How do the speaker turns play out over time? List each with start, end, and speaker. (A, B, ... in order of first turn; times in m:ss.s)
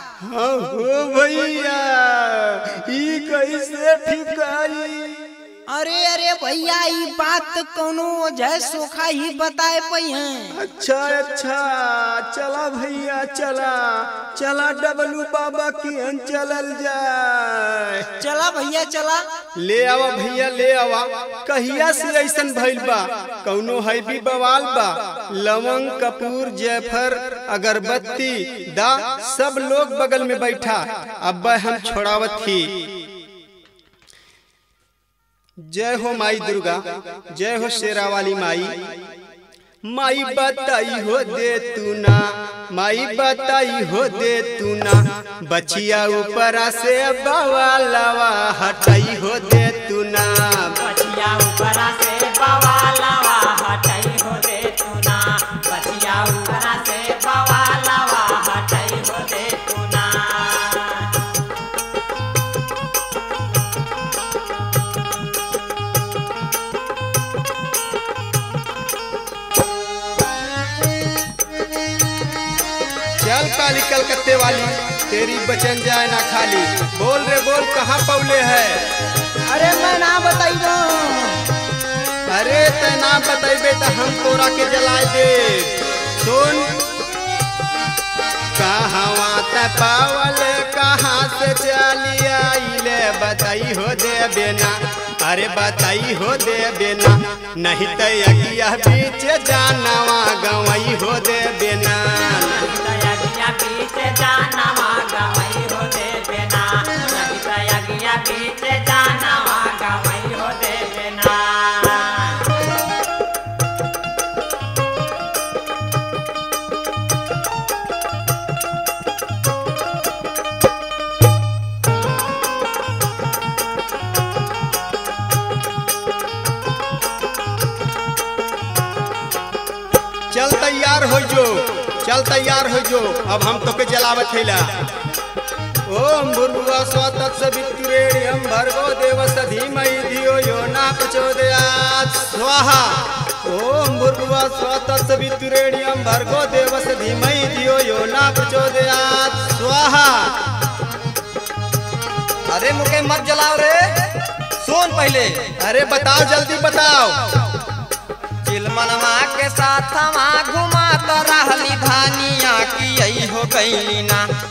0:00.2-0:05.3 A
0:05.7-0:10.5 B
0:10.5-0:18.2 A
0:18.2-0:19.2 B
0:19.6-0:33.1 A
0:35.6-0:39.0 A
0:39.8-0:50.8 A
0:50.8-1:01.3 C
1:13.2-1:18.8 A
1:19.5-1:21.4 B
1:22.3-1:26.7 A
1:28.5-1:42.7 A
1:42.5-1:52.6 C
2:10.3-2:14.8 A
2:15.8-2:30.4 A
2:32.5-2:35.5 D
2:35.6-2:37.5 A
2:38.4-2:44.3 D